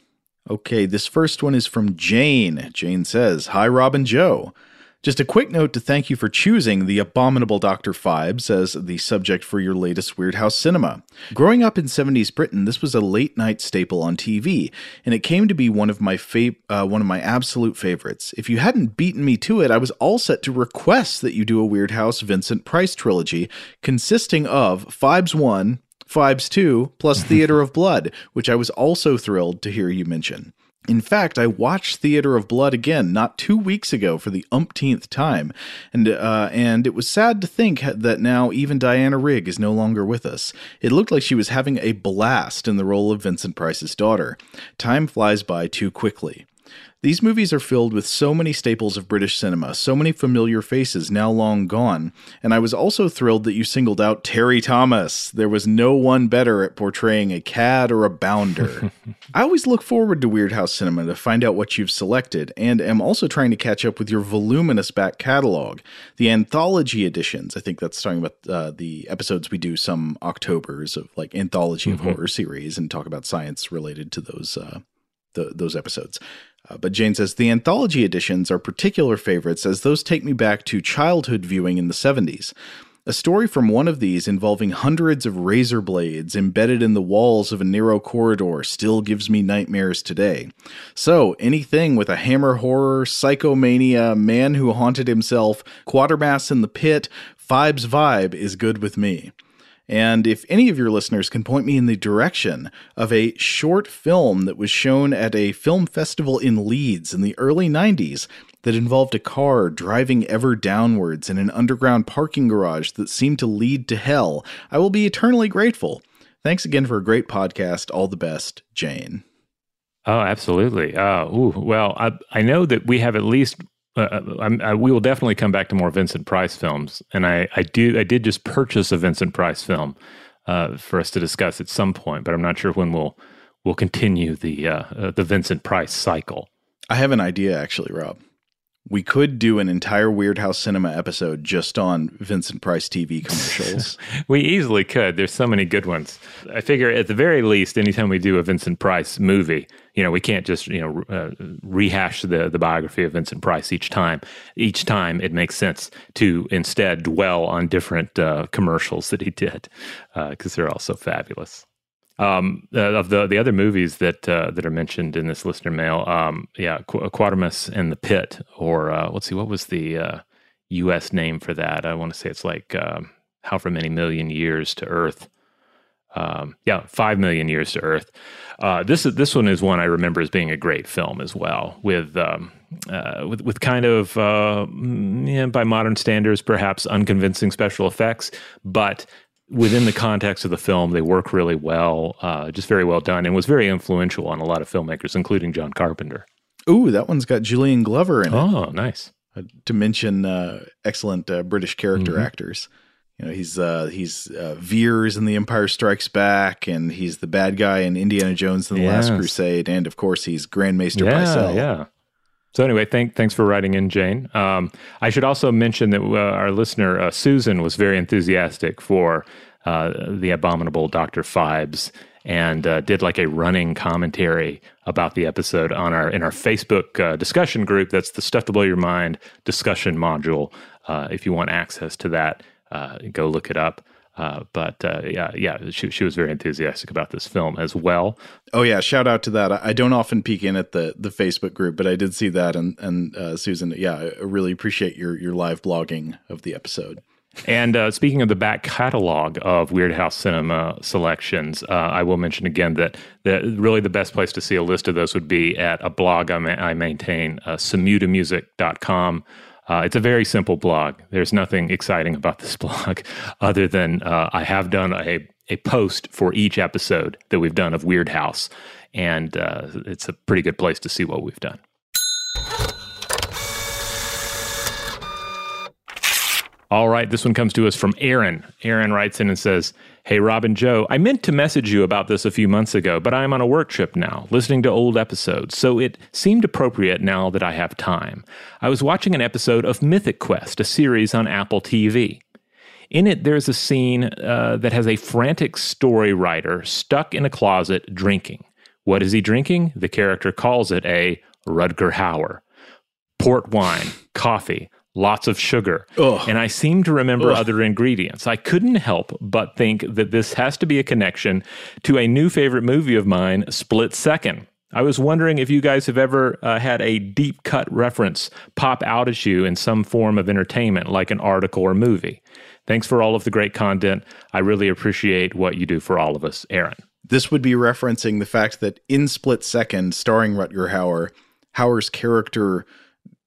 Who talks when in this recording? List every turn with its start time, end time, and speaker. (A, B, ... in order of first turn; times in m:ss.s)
0:00.5-0:46.5 A
0:47.0-1:14.8 A
1:11.9-1:12.2 B
1:15.3-1:22.5 A
1:23.1-1:39.3 A
1:39.9-1:59.2 A
2:00.1-2:16.5 B
2:16.9-2:18.2 A
2:18.9-2:24.0 A
2:23.4-2:41.6 B
2:42.2-2:55.3 B
2:56.1-3:16.3 B
3:16.7-3:18.5 A
3:18.3-3:19.1 B
3:19.4-3:31.7 A
3:22.0-3:22.3 B
3:28.7-3:29.3 B
3:31.0-3:31.9 B
3:32.5-3:58.2 B
3:58.5-4:07.0 A
4:07.4-4:31.6 B
4:36.7-4:52.2 B
4:52.9-5:02.4 B
5:03.2-5:26.8 B
5:06.0-5:06.3 A
5:27.1-5:32.7 A